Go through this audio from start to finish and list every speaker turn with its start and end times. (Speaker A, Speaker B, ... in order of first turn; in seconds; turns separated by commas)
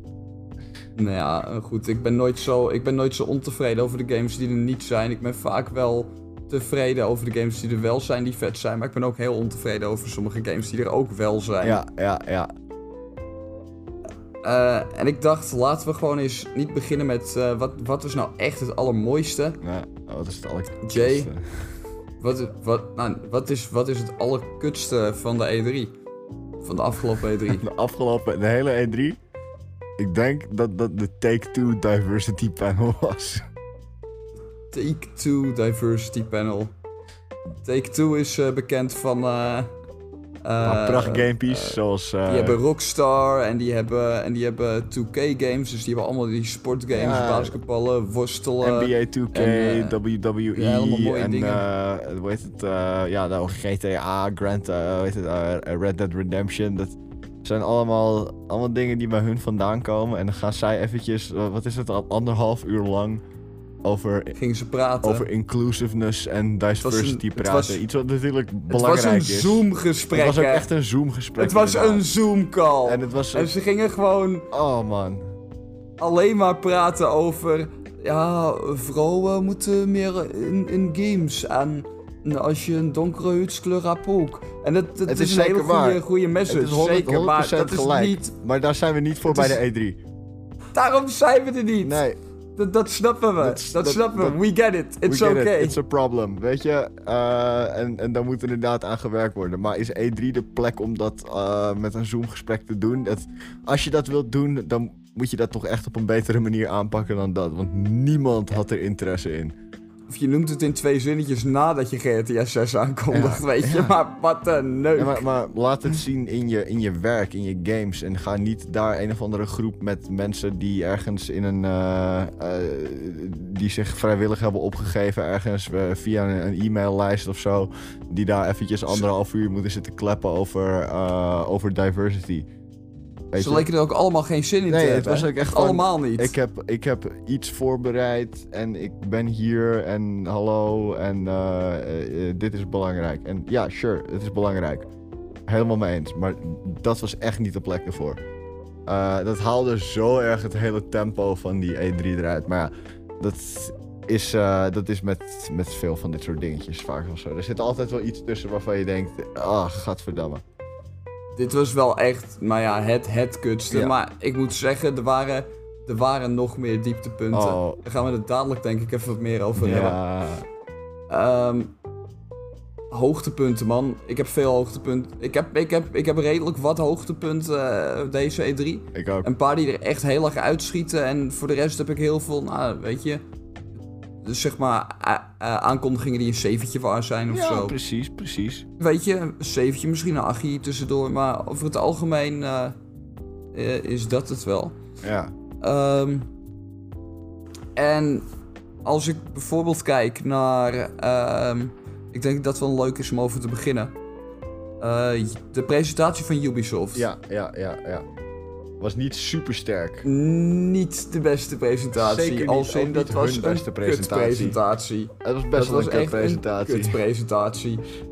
Speaker A: 1.0-11.8, Speaker B: 11.6-12.5, Speaker A: 14.4-19.6, Speaker B: 19.6-21.7, Speaker A: 20.8-21.3, Speaker A: 22.2-25.9, Speaker A: 26.6-27.7, Speaker B: 27.5-29.2, Speaker B: 30.0-33.5, Speaker A: 34.7-36.7, Speaker A: 37.6-39.7, Speaker A: 40.5-50.0, Speaker B: 40.6-42.6, Speaker B: 46.9-47.5, Speaker B: 48.6-63.2, Speaker A: 50.5-51.6, Speaker B: 63.8-64.3, Speaker A: 64.4-65.3, Speaker B: 65.0-72.1, Speaker A: 66.8-67.8, Speaker A: 68.7-70.7, Speaker A: 71.4-74.5, Speaker B: 72.8-73.5, Speaker B: 74.5-75.3, Speaker A: 76.0-88.3, Speaker B: 85.1-90.0, Speaker A: 89.3-89.6, Speaker A: 90.8-92.0, Speaker B: 91.8-92.2, Speaker A: 92.6-95.8, Speaker B: 93.4-94.4, Speaker B: 95.1-109.5, Speaker A: 110.1-115.3, Speaker B: 113.1-114.0, Speaker B: 115.0-132.5, Speaker B: 133.3-133.7, Speaker A: 133.4-136.3, Speaker B: 134.7-144.9, Speaker B: 145.5-148.2, Speaker B: 148.9-160.4, Speaker A: 161.4-170.0, Speaker B: 163.7-164.0, Speaker B: 167.3-167.8, Speaker B: 169.6-170.4, Speaker A: 171.1-171.7, Speaker A: 172.9-183.2, Speaker B: 178.9-179.3, Speaker A: 184.2-187.8, Speaker B: 187.3-188.7, Speaker A: 188.8-192.8, Speaker A: 193.5-194.8, Speaker B: 195.0-195.3, Speaker A: 195.6-196.3, Speaker A: 197.8-198.3, Speaker A: 198.8-203.9, Speaker A: 204.8-207.1, Speaker B: 206.9-208.1, Speaker B: 208.8-210.1, Speaker A: 210.0-217.8, Speaker B: 211.9-214.6, Speaker B: 215.2-217.0